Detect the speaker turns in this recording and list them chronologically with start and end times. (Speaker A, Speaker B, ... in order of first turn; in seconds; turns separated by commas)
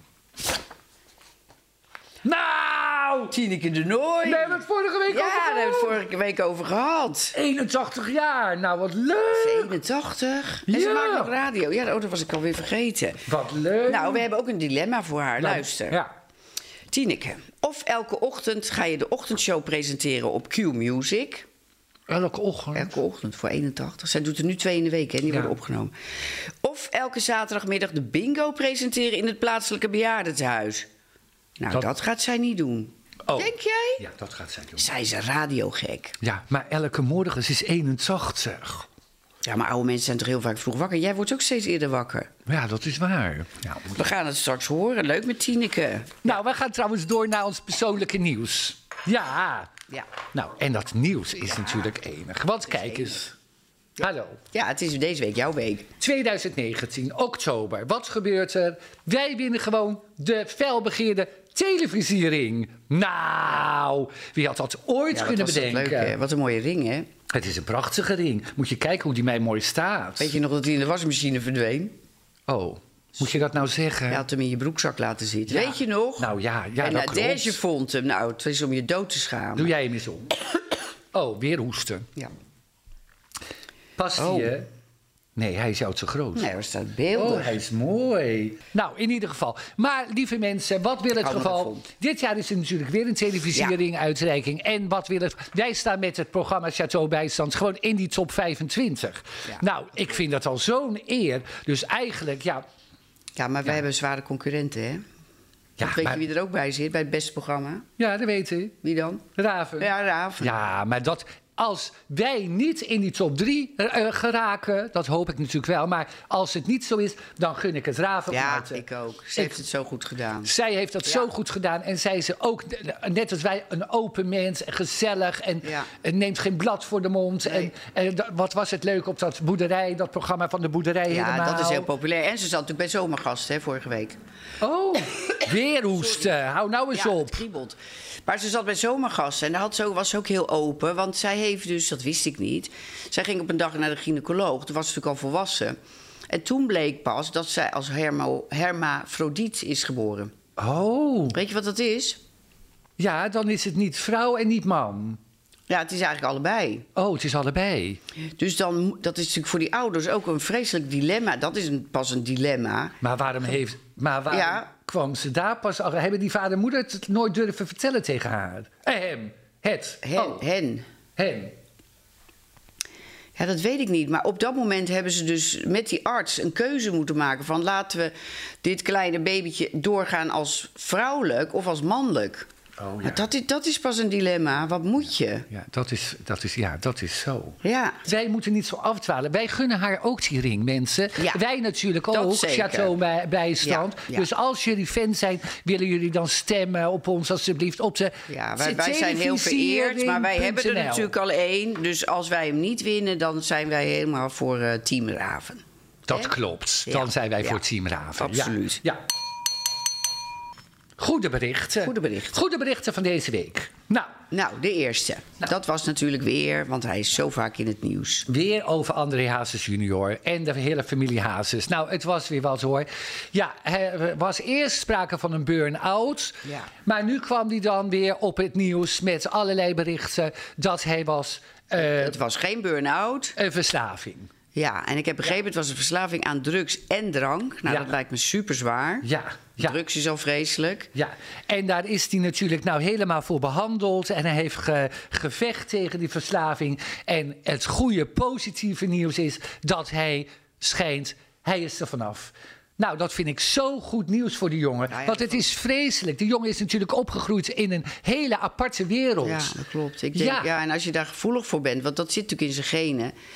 Speaker A: 2.2-3.3, Speaker B: 3.3-7.3, Speaker A: 4.2-6.0, Speaker A: 7.3-9.7, Speaker B: 9.3-13.2, Speaker A: 10.7-11.3, Speaker A: 13.3-14.2, Speaker B: 13.9-16.0, Speaker A: 15.4-16.1, Speaker B: 16.9-21.5, Speaker A: 22.1-23.0, Speaker B: 22.7-30.9, Speaker B: 31.6-34.0, Speaker A: 33.2-34.9, Speaker B: 34.8-36.2, Speaker A: 36.2-38.9, Speaker B: 39.4-42.3, Speaker A: 42.5-44.1, Speaker B: 43.9-46.3, Speaker A: 46.2-49.7, Speaker A: 50.3-53.3, Speaker B: 52.7-53.2, Speaker A: 54.0-54.4, Speaker B: 54.5-55.9, Speaker A: 56.0-66.1, Speaker B: 65.1-67.1, Speaker A: 67.3-70.3, Speaker B: 70.2-71.9, Speaker A: 72.5-74.2, Speaker B: 74.1-79.7, Speaker A: 75.5-77.6, Speaker A: 79.5-80.4, Speaker A: 81.1-82.1, Speaker A: 84.0-84.7, Speaker B: 84.2-84.5, Speaker A: 85.3-86.5, Speaker B: 86.3-87.6, Speaker A: 87.1-102.6, Speaker B: 91.1-91.8, Speaker B: 103.3-105.0, Speaker A: 105.8-106.2, Speaker B: 105.8-107.8, Speaker A: 108.0-108.8, Speaker B: 108.8-109.2, Speaker A: 109.4-118.8, Speaker B: 109.8-110.5, Speaker B: 118.3-120.5, Speaker A: 120.4-131.9, Speaker B: 127.4-127.7, Speaker B: 131.1-134.2, Speaker A: 134.6-137.4, Speaker B: 135.9-136.3, Speaker B: 136.9-145.8, Speaker B: 146.3-150.3, Speaker A: 150.6-151.4, Speaker B: 151.3-152.2, Speaker A: 153.0-155.2, Speaker B: 155.7-156.9, Speaker A: 156.9-158.0, Speaker B: 158.4-163.0, Speaker A: 163.0-170.4, Speaker B: 164.3-164.7, Speaker B: 170.0-170.8, Speaker A: 171.2-171.5, Speaker B: 173.3-182.5, Speaker A: 182.8-183.2, Speaker B: 183.0-185.5, Speaker A: 185.5-201.1, Speaker B: 187.6-188.0, Speaker B: 191.2-191.4, Speaker B: 192.1-192.9, Speaker B: 193.6-194.3, Speaker B: 198.3-206.3, Speaker A: 206.1-209.0, Speaker B: 206.9-207.6, Speaker B: 208.2-208.8, Speaker A: 211.0-214.1, Speaker B: 211.8-212.4, Speaker B: 214.3-218.3, Speaker A: 218.3-232.2, Speaker B: 231.8-233.3, Speaker A: 233.3-234.3, Speaker B: 234.5-239.1, Speaker A: 239.0-239.8, Speaker B: 239.6-240.9, Speaker A: 240.9-259.6, Speaker B: 254.9-255.4, Speaker B: 259.2-263.1, Speaker A: 260.1-260.5